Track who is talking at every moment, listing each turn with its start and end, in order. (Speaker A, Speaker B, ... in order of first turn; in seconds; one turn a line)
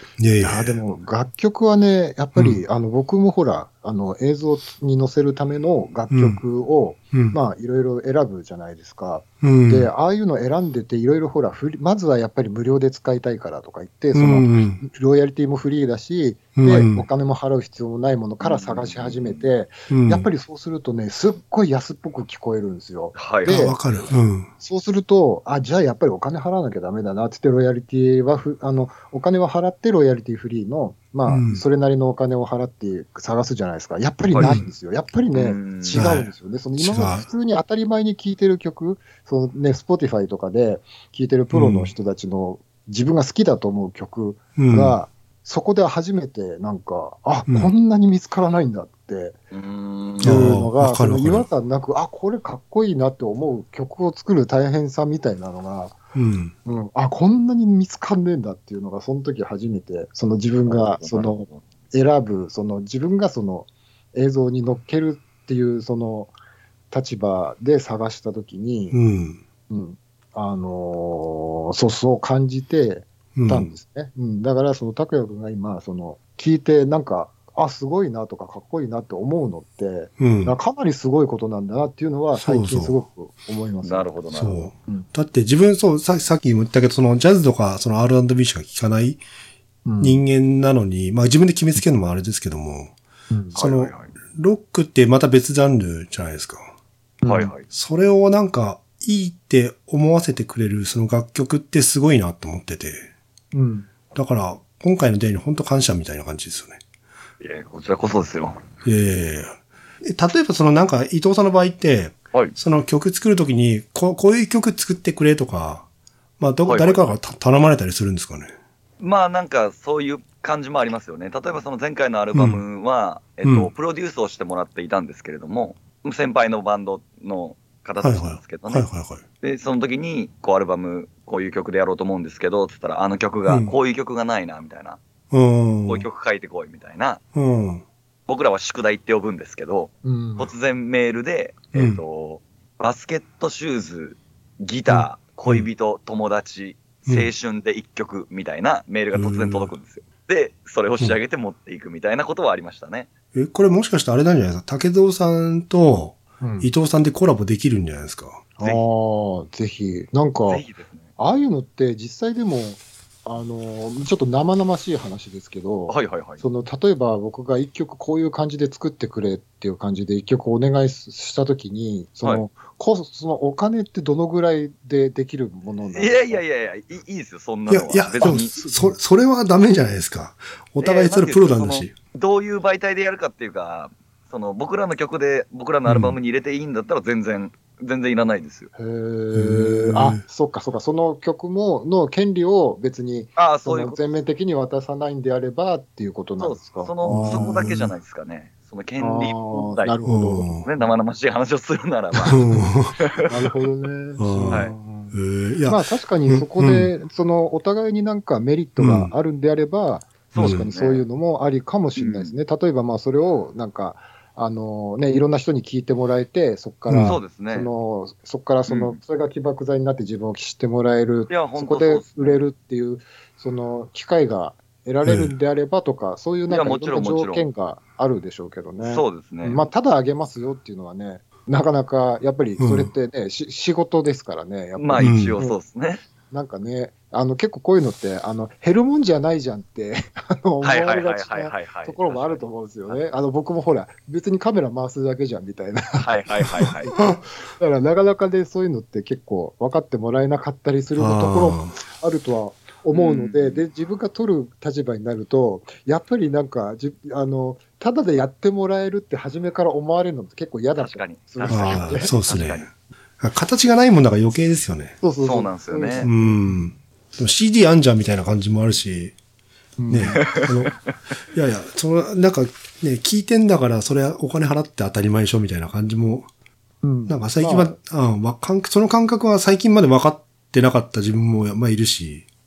Speaker A: 0.2-0.8
Speaker B: 0.4-23.8
Speaker A: 2.4-2.6
Speaker A: 6.1-6.4
Speaker A: 7.1-7.4
Speaker A: 9.4-9.9
Speaker A: 14.1-14.8
Speaker A: 16.6-17.1
Speaker C: 18.4-19.4
Speaker A: 19.9-20.3
Speaker C: 23.1-23.9
Speaker A: 23.4-24.5
Speaker B: 24.6-49.4
Speaker A: 31.3-31.6
Speaker C: 34.4-34.6
Speaker A: 34.4-34.6
Speaker C: 35.3-36.1
Speaker A: 35.9-37.3
Speaker A: 41.5-41.9
Speaker A: 44.6-45.0
Speaker C: 49.5-50.5
Speaker B: 50.2-56.0
Speaker A: 50.2-51.5
Speaker A: 56.1-56.5
Speaker B: 56.6-66.3
Speaker C: 60.7-61.6
Speaker B: 66.9-69.0
Speaker A: 68.9-69.4
Speaker B: 69.7-84.1
Speaker A: 73.3-73.7
Speaker A: 80.2-80.5
Speaker A: 82.4-83.0
Speaker C: 83.8-84.7
Speaker A: 84.3-89.2
Speaker B: 89.8-90.2
Speaker A: 90.0-92.9
Speaker B: 93.3-93.6
Speaker C: 93.5-94.1
Speaker A: 93.5-96.7
Speaker B: 97.2-97.5
Speaker C: 97.3-97.7
Speaker A: 97.7-103.1
Speaker B: 103.5-103.9
Speaker A: 104.1-106.8
Speaker C: 107.4-108.6
Speaker A: 108.8-115.9
Speaker A: 116.4-118.5
Speaker C: 116.7-117.1
Speaker C: 119.0-128.9
Speaker A: 122.3-122.6
Speaker A: 123.4-123.7
Speaker A: 128.0-129.2
Speaker C: 129.4-135.0
Speaker A: 133.5-133.7
Speaker A: 135.3-136.1
Speaker C: 135.9-137.2
Speaker A: 137.3-137.8
Speaker C: 138.3-153.1
Speaker B: 140.0-140.5
Speaker A: 141.8-142.0
Speaker A: 144.9-145.7
Speaker A: 149.1-149.7
Speaker A: 153.3-158.4
Speaker B: 156.4-156.7
Speaker B: 158.6-160.6
Speaker C: 160.5-161.1
Speaker B: 161.2-176.4
Speaker C: 165.9-166.4
Speaker C: 175.9-178.5
Speaker A: 177.7-181.9
Speaker B: 178.2-179.0
Speaker C: 180.8-188.7
Speaker A: 185.9-186.2
Speaker B: 188.8-197.7
Speaker A: 189.3-190.2
Speaker C: 193.4-194.0
Speaker C: 196.4-200.0
Speaker A: 197.0-197.9
Speaker B: 199.0-200.9
Speaker A: 200.1-200.7
Speaker C: 200.6-202.4
Speaker B: 202.2-202.7
Speaker A: 202.2-202.9
Speaker C: 203.0-203.3
Speaker B: 203.2-235.6
Speaker A: 204.2-206.9
Speaker A: 208.8-209.1
Speaker C: 210.3-211.0
Speaker A: 210.4-210.7
Speaker C: 212.0-212.3
Speaker A: 216.9-217.2
Speaker C: 217.0-217.7
Speaker C: 218.7-219.0
Speaker C: 221.3-222.4
Speaker A: 225.0-225.3
Speaker C: 226.5-227.5
Speaker C: 228.8-229.6
Speaker A: 232.6-232.9
Speaker C: 234.8-236.0
Speaker A: 235.0-235.4
Speaker B: 236.3-262.1
Speaker C: 240.6-243.0
Speaker C: 246.0-246.9
Speaker A: 251.0-251.8
Speaker C: 252.9-253.6
Speaker C: 260.8-262.7
Speaker A: 261.5-262.7
Speaker A: 263.2-265.0
Speaker B: 265.0-266.6
Speaker C: 265.2-266.1
Speaker A: 266.0-269.2
Speaker B: 269.8-270.4
Speaker A: 269.9-270.8
Speaker C: 270.2-270.8
Speaker A: 271.3-276.3
Speaker B: 276.8-277.8
Speaker A: 277.1-282.3